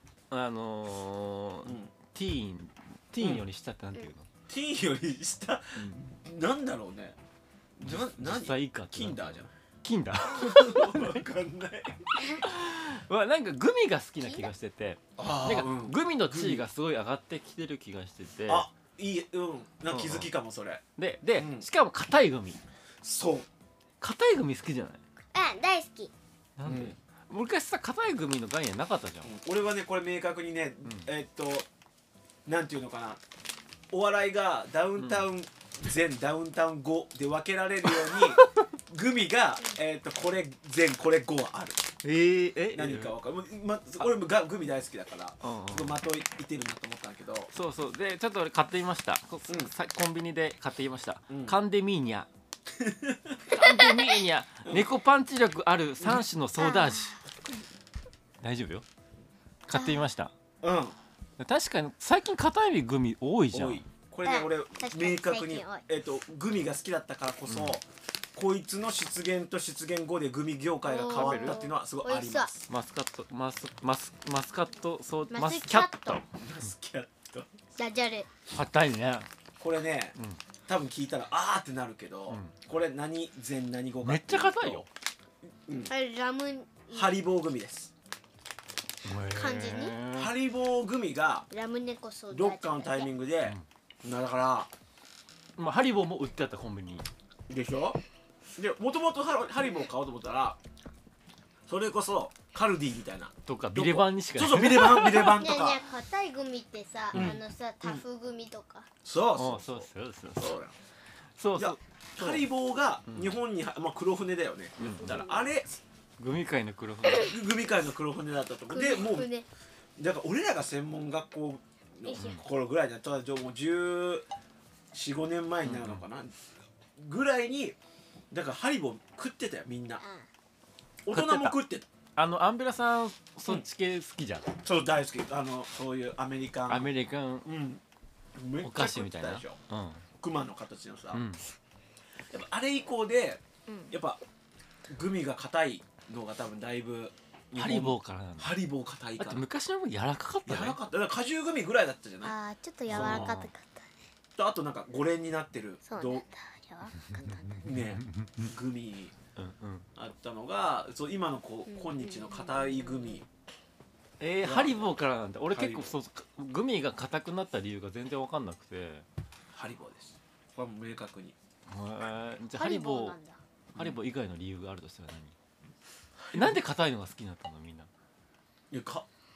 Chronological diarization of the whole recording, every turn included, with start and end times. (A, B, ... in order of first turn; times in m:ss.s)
0:00.3-0:04.3 A
0:01.6-0:01.9 B
0:03.2-0:03.4 B
0:04.5-0:07.2 B
0:05.8-0:06.0 A
0:07.8-0:09.5 B
0:07.8-0:11.2 A
0:10.1-0:12.3 B
0:12.4-0:18.7 A
0:15.2-0:16.6 B
0:18.5-0:21.7 B
0:19.9-0:20.3 A
0:21.0-0:22.6 A
0:23.0-0:23.5 B
0:24.0-0:25.0 A
0:25.3-0:26.1 C
0:26.6-0:29.3 A
0:26.7-0:27.0 B
0:29.2-0:31.7 B
0:32.5-0:33.2 B
0:33.9-0:41.9 B
0:35.0-0:35.3 A
0:37.9-0:38.6 A
0:42.0-0:43.1 A
0:42.7-0:47.5 B
0:45.4-0:46.0 A
0:47.5-0:52.3 A
0:51.3-0:51.6 B
0:52.7-0:53.4 B
0:53.5-0:57.2 A
0:53.6-0:54.2 C
0:56.6-0:57.2 C
0:58.4-0:58.8 A
0:59.7-1:00.3 A
0:59.7-1:00.1 C
1:00.6-1:01.0 B
1:01.4-1:03.8 A
1:03.5-1:12.7 B
1:04.2-1:05.8 C
1:07.5-1:07.8 A
1:10.8-1:12.5 C
1:11.1-1:11.6 A
1:12.7-1:16.2 A
1:15.3-1:16.2 C
1:16.3-1:17.5 B
1:17.8-1:18.3 C
1:18.5-1:19.3 A
1:19.6-1:20.2 B
1:20.7-1:24.9 B
1:22.3-1:22.6 A
1:24.0-1:24.9 A
1:25.9-1:27.2 C
1:26.9-1:27.9 B
1:29.0-1:30.4 A
1:29.2-1:30.0 C
1:30.1-1:31.5 B
1:31.5-1:33.1 C
1:32.3-1:34.7 B
1:35.6-1:37.1 A
1:37.5-1:38.0 B
1:38.6-1:40.6 B
1:41.7-1:45.8 B
1:43.5-1:45.4 A
1:45.2-1:48.9 C
1:47.1-1:48.0 B
1:49.0-1:50.8 B
1:49.3-1:50.6 A
1:51.4-1:52.4 A
1:51.6-1:55.7 B
1:53.1-1:53.4 A
1:54.8-1:55.2 A
1:55.0-1:55.4 C
1:56.2-1:57.4 A
1:57.1-1:57.3 C
1:57.1-1:59.3 B
1:58.7-1:59.5 C
2:00.0-2:04.3 B
2:02.0-2:02.4 C
2:02.2-2:02.4 A
2:04.9-2:06.4 B
2:05.6-2:06.0 A
2:07.0-2:07.8 B
2:08.3-2:10.0 B
2:10.0-2:10.3 C
2:11.0-2:11.9 B
2:11.1-2:11.6 A
2:12.2-2:14.5 A
2:14.6-2:16.9 B
2:16.7-2:17.5 A
2:17.4-2:17.8 B
2:18.4-2:19.6 B
2:18.6-2:20.0 A
2:20.2-2:21.2 B
2:21.1-2:21.4 A
2:22.3-2:24.2 B
2:23.7-2:23.9 C
2:24.9-2:29.4 B
2:27.5-2:28.6 A
2:29.2-2:30.8 A
2:30.5-2:32.4 B
2:32.2-2:33.9 C
2:32.9-2:33.5 A
2:32.9-2:33.4 B
2:34.4-2:36.2 B
2:35.9-2:37.5 C
2:37.0-2:38.5 A
2:37.4-2:39.1 B
2:39.4-2:39.9 A
2:40.0-2:43.3 B
2:41.7-2:43.0 C
2:44.2-2:49.1 A
2:44.4-2:44.9 B
2:45.5-2:46.0 B
2:49.5-2:51.4 B
2:51.7-2:53.2 A
2:52.6-2:53.4 C
2:53.8-2:55.3 A
2:56.2-2:56.6 B
2:56.3-2:57.9 A
2:58.7-2:59.1 B